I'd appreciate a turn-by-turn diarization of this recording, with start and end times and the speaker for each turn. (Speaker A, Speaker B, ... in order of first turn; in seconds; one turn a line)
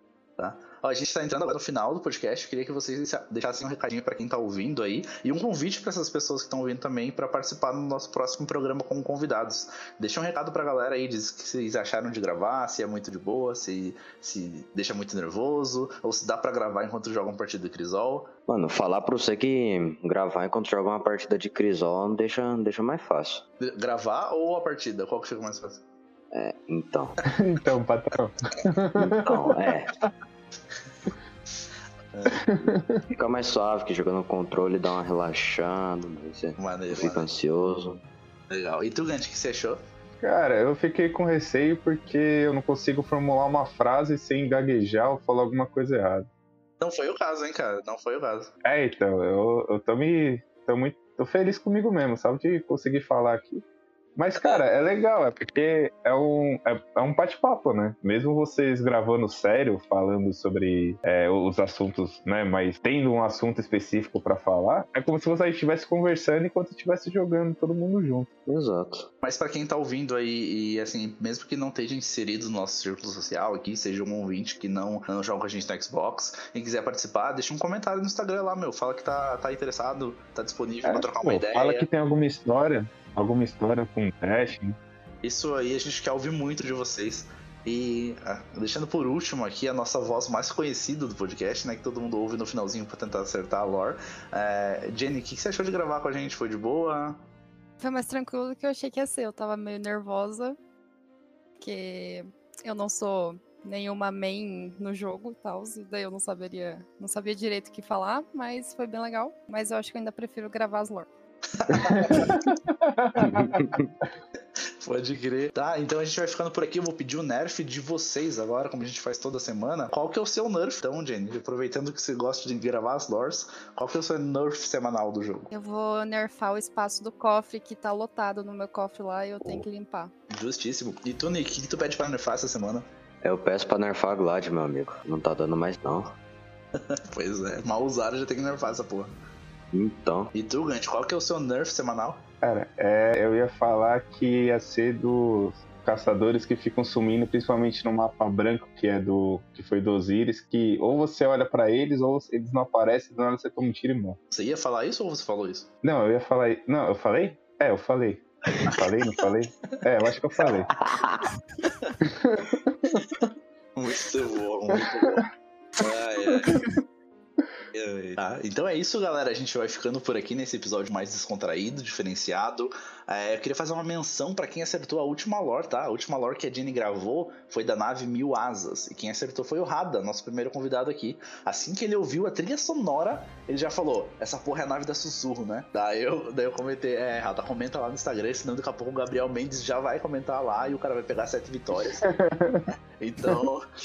Speaker A: 0.4-18.3
Speaker B: 18.5-23.4
Speaker A: 23.6-25.8
Speaker B: 26.3-27.2
Speaker C: 27.3-29.5
Speaker B: 29.0-29.9
Speaker A: 32.1-32.4
Speaker C: 32.3-33.0
Speaker B: 32.6-38.0
Speaker A: 36.6-37.3
Speaker A: 38.5-39.8
Speaker C: 40.2-46.2
Speaker A: 46.8-48.5
Speaker C: 48.6-53.6
Speaker C: 54.1-68.3
Speaker A: 54.4-54.6
Speaker B: 68.5-69.1
Speaker A: 69.2-81.9
Speaker C: 80.8-84.8
Speaker A: 85.2-97.2
Speaker D: 97.8-100.6
Speaker D: 101.6-111.1
Speaker A: 111.5-112.5
Speaker C: 111.7-113.8
Speaker B: 113.2-113.9
Speaker A: 114.8-125.5
Speaker D: 125.5-130.1
Speaker A: 130.3-132.8
Speaker B: 133.2-136.2
Speaker A: 136.7-139.2
Speaker B: 139.7-140.3
Speaker A: 140.3-142.2
Speaker C: 142.4-154.2
Speaker A: 154.3-155.7
Speaker C: 155.8-160.7
Speaker A: 158.7-159.3
Speaker B: 160.8-161.2
Speaker C: 162.0-163.0
Speaker A: 163.8-165.3
Speaker C: 164.7-165.2
Speaker A: 165.8-166.6
Speaker C: 166.3-166.6
Speaker A: 167.7-192.1
Speaker C: 192.0-192.7
Speaker A: 193.0-193.6